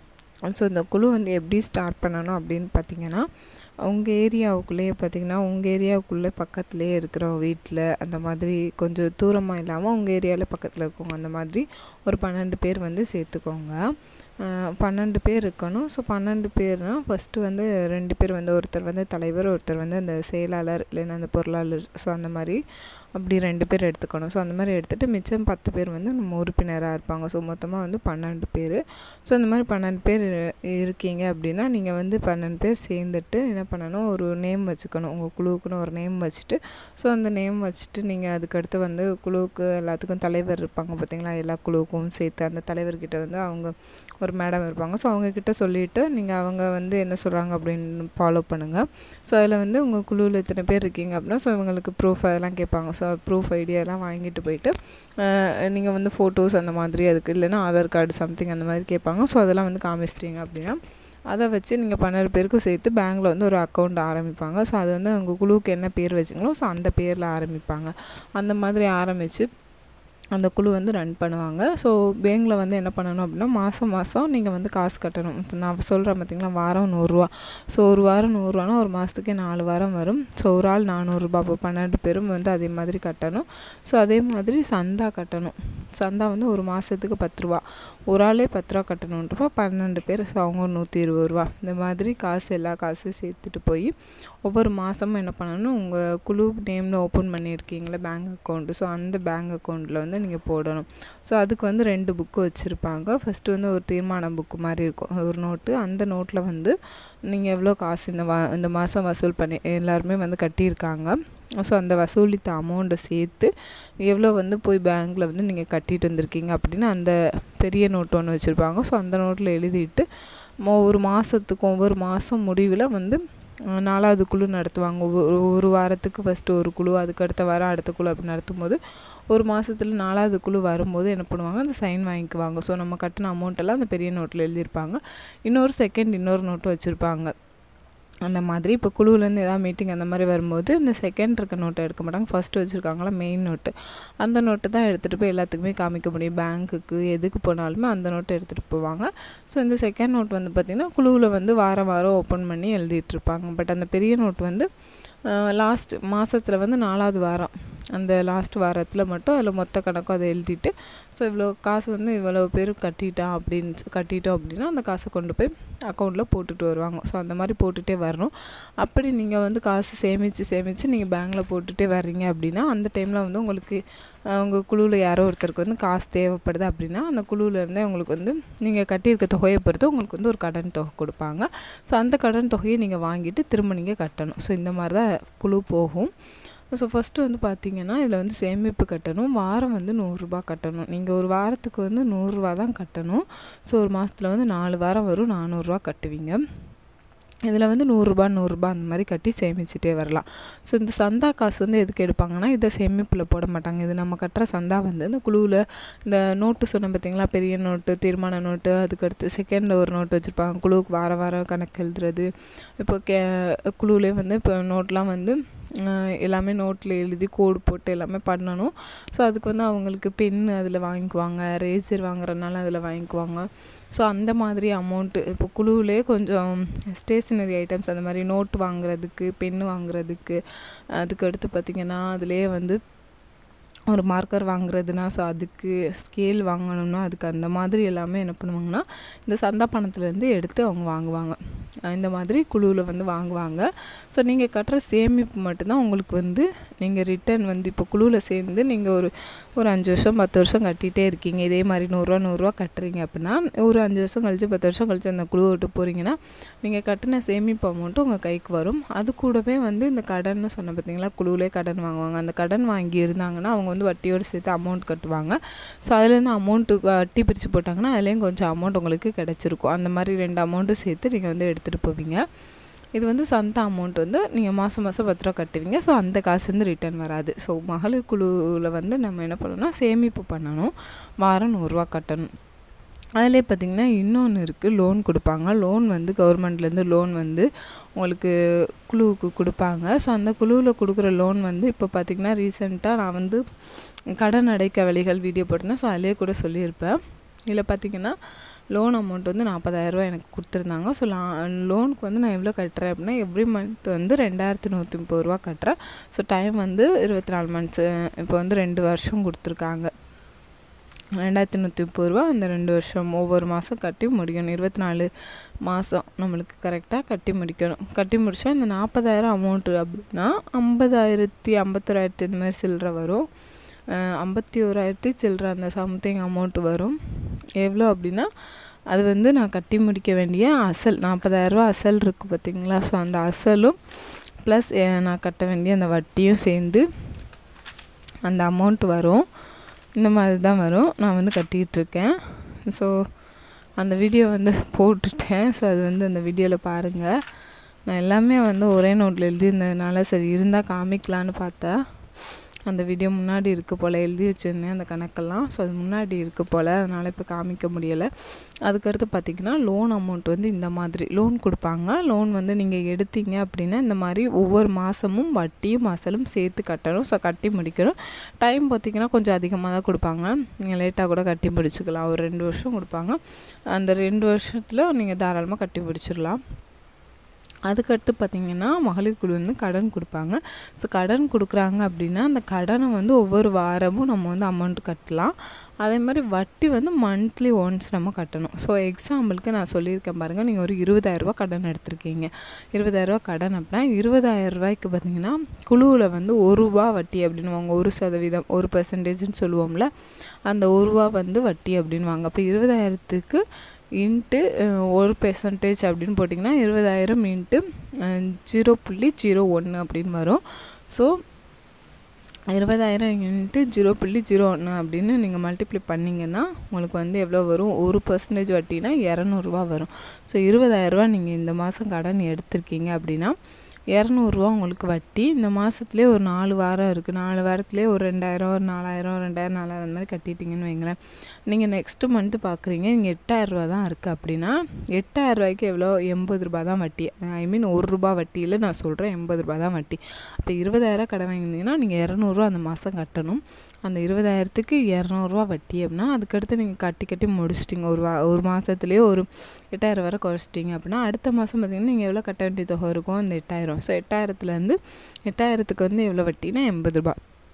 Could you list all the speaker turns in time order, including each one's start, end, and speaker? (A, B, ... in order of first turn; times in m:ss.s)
0:00.4-0:03.3 A
0:03.8-0:13.8 A
0:14.4-0:22.6 A
0:23.1-1:09.5 A
1:10.3-1:46.8 A
1:47.3-1:53.5 A
1:54.0-2:00.0 A
2:00.6-2:03.2 A
2:03.7-2:08.8 A
2:09.3-2:17.3 A
2:18.2-2:34.7 A
2:35.3-3:06.1 A
3:06.7-3:16.4 A
3:17.5-3:32.3 A
3:32.8-3:50.4 A
3:51.0-3:52.8 A
3:53.9-4:32.2 A
4:32.9-4:42.3 A
4:43.2-4:48.3 A
4:48.8-4:53.4 A
4:54.1-4:57.0 A
4:57.5-4:58.2 A
4:58.7-5:09.9 A
5:11.2-5:15.1 A
5:15.6-5:23.2 A
5:24.0-5:28.3 A
5:28.9-5:36.8 A
5:38.2-5:39.2 A
5:40.0-5:42.9 A
5:43.8-5:47.1 A
5:47.9-5:58.1 A
5:58.6-6:13.2 A
6:13.7-6:16.4 A
6:17.7-6:39.9 A
6:40.4-6:43.4 A
6:44.0-6:51.1 A
6:52.5-7:03.3 A
7:03.9-7:37.2 A